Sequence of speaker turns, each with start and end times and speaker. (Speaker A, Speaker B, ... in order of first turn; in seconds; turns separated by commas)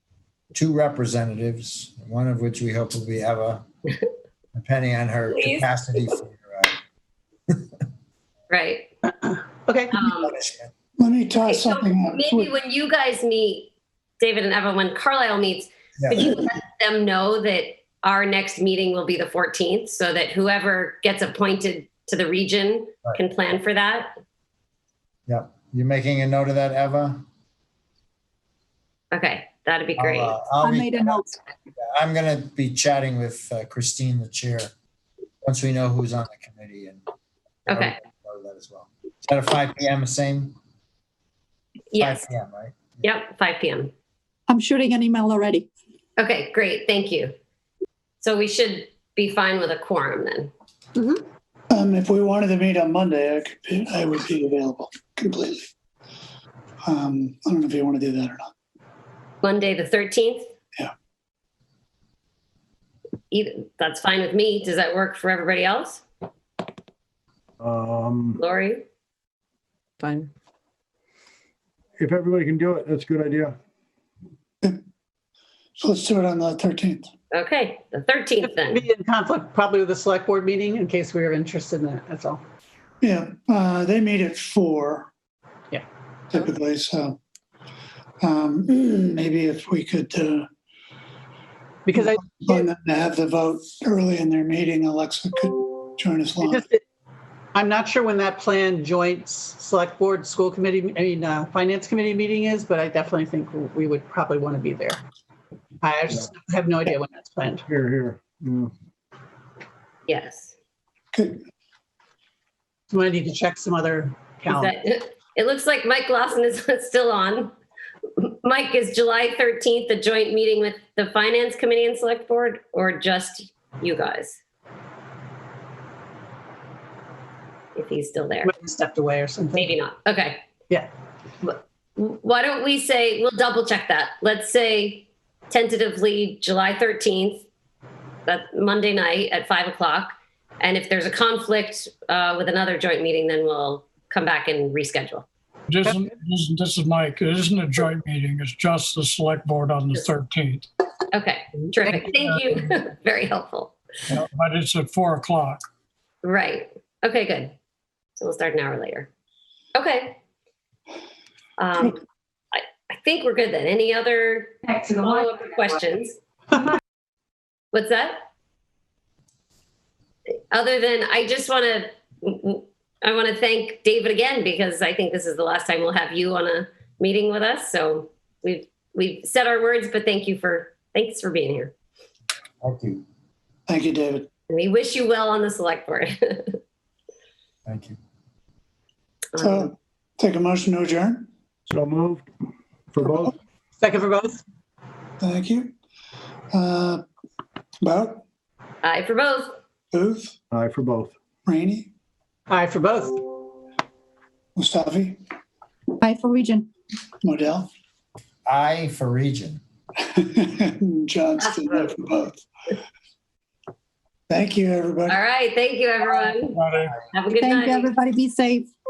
Speaker A: 0.5-3.6, Speaker A: 4.5-6.8, Speaker B: 5.3-5.7, Speaker B: 8.5-8.9, Speaker C: 9.2-9.9, Speaker B: 9.9-10.3, Speaker A: 10.0-10.7, Speaker D: 11.0-12.5, Speaker B: 11.5-24.1, Speaker A: 16.0-16.4, Speaker A: 25.3-27.2, Speaker B: 29.1-30.4, Speaker A: 30.0-31.2, Speaker E: 30.6-31.3, Speaker A: 31.8-34.7, Speaker A: 35.4-37.0, Speaker B: 37.7-38.0, Speaker A: 37.7-40.6, Speaker B: 41.9-42.2, Speaker A: 42.0-43.0, Speaker B: 43.0-43.9, Speaker E: 44.5-45.7, Speaker B: 46.2-47.4, Speaker B: 48.2-51.2, Speaker D: 51.7-55.7, Speaker D: 56.9-58.5, Speaker B: 59.4-60.5, Speaker B: 63.3-66.0, Speaker F: 67.6-68.4, Speaker B: 68.4-68.8, Speaker F: 72.0-73.6, Speaker D: 75.8-77.1, Speaker B: 77.3-78.8, Speaker C: 78.4-82.4, Speaker D: 83.0-85.1, Speaker D: 86.3-87.2, Speaker D: 88.2-90.5, Speaker C: 91.9-92.7, Speaker D: 92.0-96.7, Speaker C: 96.4-96.8, Speaker C: 97.5-105.0, Speaker C: 105.8-107.7, Speaker F: 107.7-108.7, Speaker B: 110.1-110.5, Speaker D: 111.1-111.4, Speaker C: 112.9-114.8, Speaker B: 114.5-117.5, Speaker B: 118.2-124.4, Speaker B: 127.8-128.5, Speaker C: 128.4-129.7, Speaker B: 129.6-130.4, Speaker B: 131.4-137.5, Speaker B: 138.3-145.3, Speaker G: 145.7-150.7, Speaker B: 151.1-153.7, Speaker G: 151.9-152.6, Speaker G: 154.2-155.6, Speaker B: 156.2-157.5, Speaker B: 158.2-159.1, Speaker B: 159.8-160.2, Speaker B: 161.6-162.0, Speaker B: 162.5-166.2, Speaker B: 167.7-168.2, Speaker B: 170.5-181.8, Speaker A: 182.6-183.0, Speaker D: 183.7-184.3, Speaker B: 184.5-186.6, Speaker A: 187.7-188.0, Speaker B: 189.4-189.7, Speaker D: 189.4-191.3, Speaker F: 191.7-192.3, Speaker F: 192.9-193.3, Speaker C: 193.8-194.4, Speaker D: 195.2-195.7, Speaker D: 196.5-197.0, Speaker D: 197.8-198.2, Speaker B: 198.8-199.6, Speaker D: 199.9-200.3, Speaker F: 200.5-201.1, Speaker D: 201.5-201.9, Speaker C: 202.5-203.2, Speaker D: 204.6-205.2, Speaker E: 206.0-206.7, Speaker D: 207.2-207.7, Speaker A: 208.5-209.6, Speaker D: 210.1-212.4, Speaker B: 211.4-212.0, Speaker D: 214.3-215.2, Speaker B: 215.1-217.9, Speaker G: 216.5-217.0, Speaker E: 217.4-218.7